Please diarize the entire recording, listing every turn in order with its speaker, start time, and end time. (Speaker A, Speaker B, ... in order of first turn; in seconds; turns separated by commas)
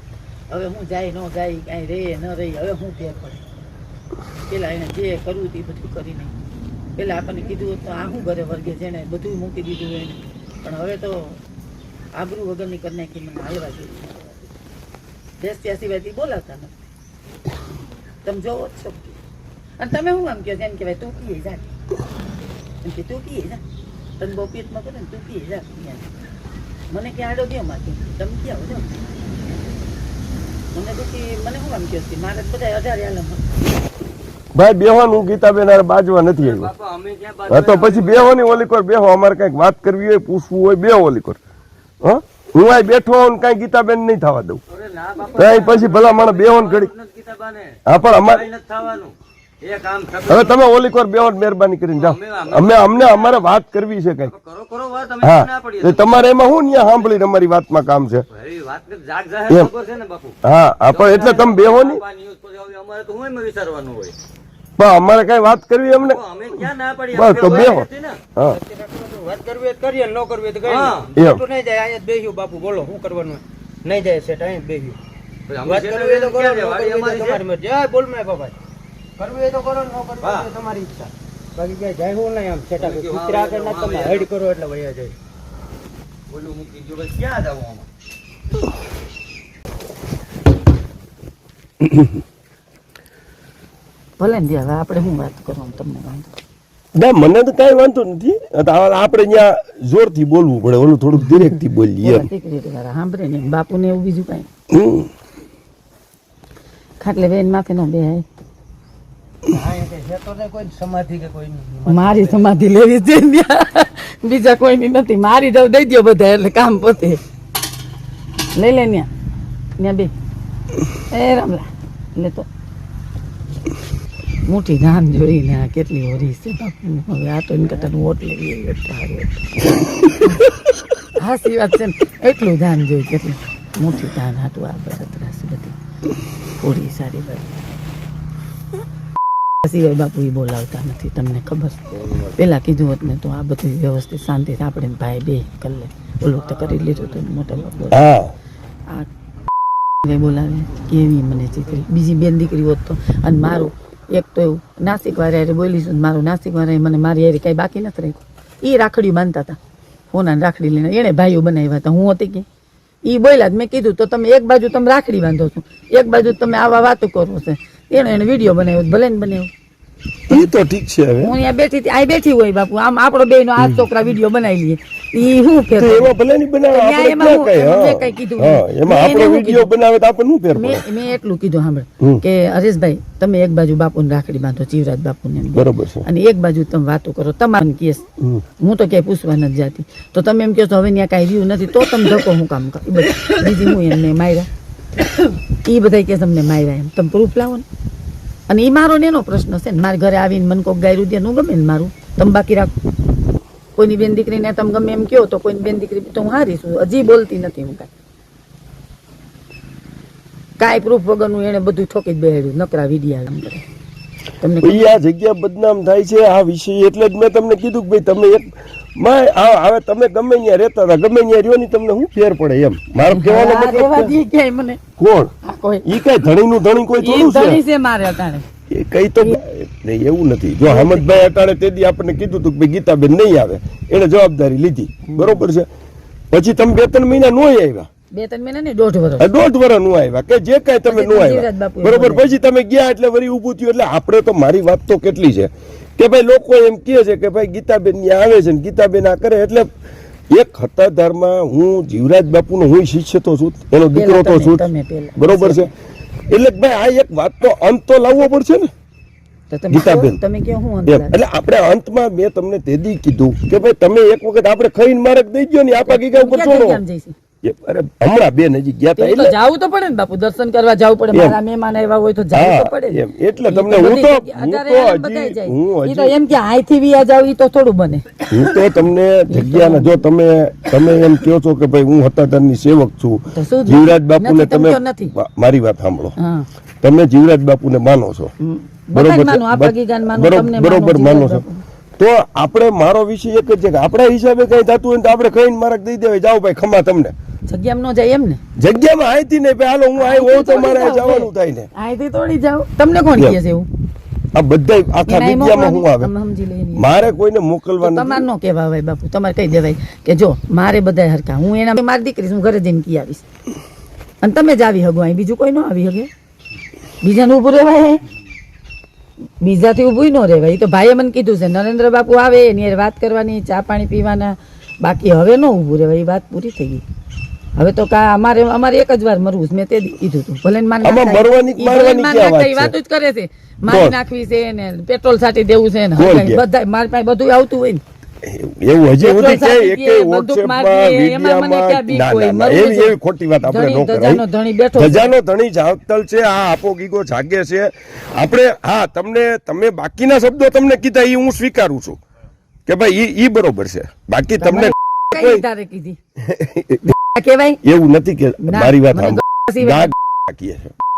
Speaker A: 0.5-3.4, Speaker A: 4.5-6.3, Speaker A: 7.0-11.4, Speaker A: 12.1-14.5, Speaker A: 15.4-16.8, Speaker A: 18.2-19.2, Speaker A: 19.8-21.7, Speaker A: 22.8-23.6, Speaker A: 24.2-26.1, Speaker A: 26.9-29.0, Speaker A: 30.7-33.5, Speaker B: 34.5-36.7, Speaker C: 36.4-38.6, Speaker B: 37.5-41.4, Speaker B: 42.0-44.6, Speaker C: 44.7-50.6, Speaker B: 45.3-46.9, Speaker B: 47.9-48.5, Speaker B: 50.3-54.3, Speaker C: 51.9-53.5, Speaker C: 54.3-57.1, Speaker B: 55.2-58.3, Speaker C: 58.3-60.4, Speaker B: 60.4-62.0, Speaker C: 60.9-64.2, Speaker B: 64.8-68.6, Speaker C: 66.0-68.2, Speaker D: 67.3-67.8, Speaker D: 68.5-75.0, Speaker C: 70.7-71.1, Speaker B: 71.2-71.4, Speaker C: 75.5-77.4, Speaker D: 75.6-78.5, Speaker D: 79.2-85.1, Speaker C: 80.2-80.5, Speaker C: 82.8-84.3, Speaker C: 86.3-87.9, Speaker B: 91.8-92.1, Speaker A: 94.2-96.3, Speaker B: 97.0-102.3, Speaker A: 102.0-104.5, Speaker B: 104.7-105.1, Speaker A: 107.0-108.2, Speaker D: 109.5-112.5, Speaker A: 111.9-117.2, Speaker A: 118.5-119.1, Speaker A: 119.8-120.1, Speaker A: 121.1-122.5, Speaker A: 124.5-129.6, Speaker A: 131.2-135.8, Speaker A: 136.6-137.7, Speaker A: 139.6-148.1, Speaker B: 147.9-148.3, Speaker A: 150.0-159.6, Speaker A: 160.1-162.4, Speaker A: 163.0-169.5, Speaker B: 170.3-171.3, Speaker A: 171.2-176.1, Speaker B: 173.6-173.9, Speaker B: 175.7-180.8, Speaker A: 176.7-179.7, Speaker A: 180.6-188.1, Speaker B: 185.6-186.1, Speaker A: 188.6-194.5, Speaker A: 195.5-197.7, Speaker A: 198.5-202.7, Speaker A: 203.8-207.9, Speaker A: 210.6-213.6, Speaker A: 214.4-215.0, Speaker B: 214.6-224.2, Speaker A: 223.1-224.8, Speaker B: 225.0-225.3, Speaker A: 225.4-226.0, Speaker B: 225.8-227.6, Speaker A: 227.0-228.5, Speaker B: 228.7-235.7, Speaker A: 230.7-231.1, Speaker A: 235.1-235.4, Speaker B: 236.3-237.9, Speaker A: 238.1-239.3, Speaker B: 239.2-249.7, Speaker A: 240.9-242.3, Speaker B: 250.3-255.7, Speaker A: 253.9-255.7, Speaker B: 256.3-258.7, Speaker A: 259.5-261.1, Speaker B: 259.7-260.2, Speaker B: 260.9-266.8, Speaker A: 265.8-267.1, Speaker B: 267.4-269.4, Speaker A: 268.9-278.5, Speaker B: 271.1-271.4, Speaker B: 272.3-276.2, Speaker B: 278.3-286.1, Speaker A: 279.3-280.0, Speaker A: 283.3-285.1, Speaker A: 286.2-286.5, Speaker B: 286.8-288.3, Speaker A: 288.4-291.6, Speaker B: 288.9-291.4, Speaker B: 292.0-297.1, Speaker A: 297.5-298.4, Speaker B: 298.6-301.7, Speaker A: 299.9-303.7, Speaker B: 304.3-306.1, Speaker A: 305.1-307.0, Speaker B: 306.8-308.3, Speaker A: 307.8-313.2, Speaker A: 314.2-316.1, Speaker A: 317.0-318.0, Speaker A: 319.4-326.8, Speaker A: 327.6-337.8, Speaker B: 330.8-332.8, Speaker B: 333.7-334.0, Speaker B: 336.0-336.4, Speaker B: 338.2-352.0, Speaker A: 339.0-345.1, Speaker B: 352.7-355.4, Speaker A: 354.4-356.0, Speaker B: 356.2-356.9, Speaker A: 356.8-357.6, Speaker B: 357.6-360.7, Speaker A: 358.4-359.9